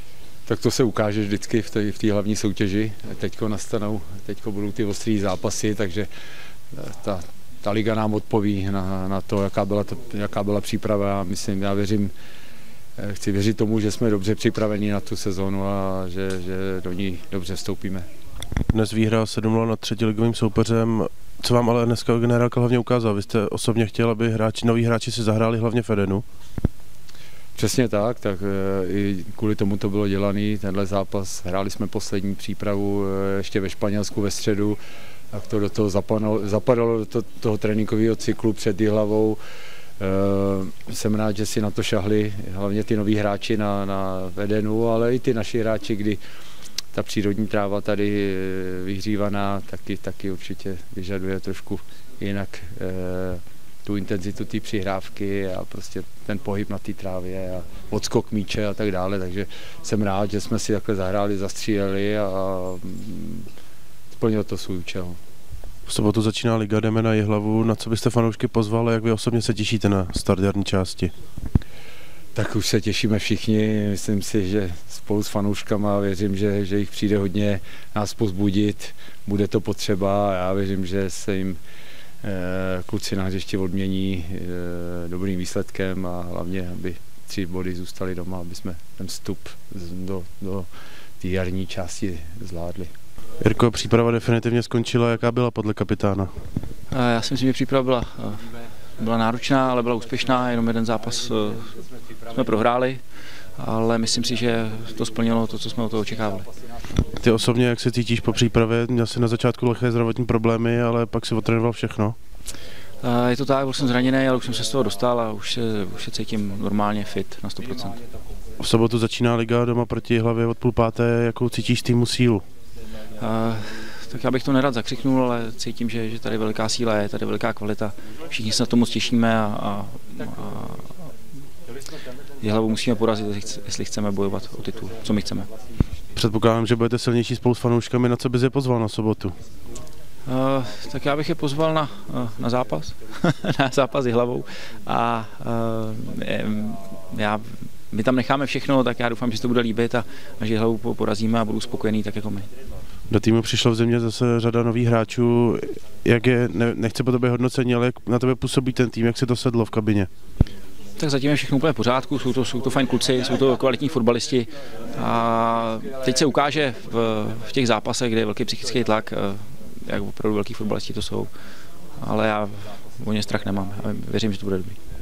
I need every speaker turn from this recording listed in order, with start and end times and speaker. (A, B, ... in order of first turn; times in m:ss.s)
0:00.4-0:06.1 A
0:06.7-0:12.1 A
0:13.0-0:18.0 A
0:18.7-0:26.2 B
0:27.6-0:34.8 A
0:35.3-0:39.4 A
0:40.0-0:46.2 A
0:46.9-1:03.5 A
1:04.1-1:05.2 A
1:05.9-1:11.1 B
1:12.3-1:21.6 A
1:22.2-1:30.7 A
1:31.2-1:32.9 A
1:33.4-1:36.3 B
1:36.9-1:41.7 C
1:42.3-1:43.0 C
1:43.6-1:46.5 C
1:47.2-1:52.2 B
1:53.0-1:58.0 C
1:58.6-2:02.4 B
2:03.2-2:11.1 C
2:12.4-2:15.5 C
2:16.2-2:19.4 B
2:20.2-2:32.5 C
2:33.1-2:40.1 B
2:41.0-2:51.3 C
2:52.0-2:54.8 C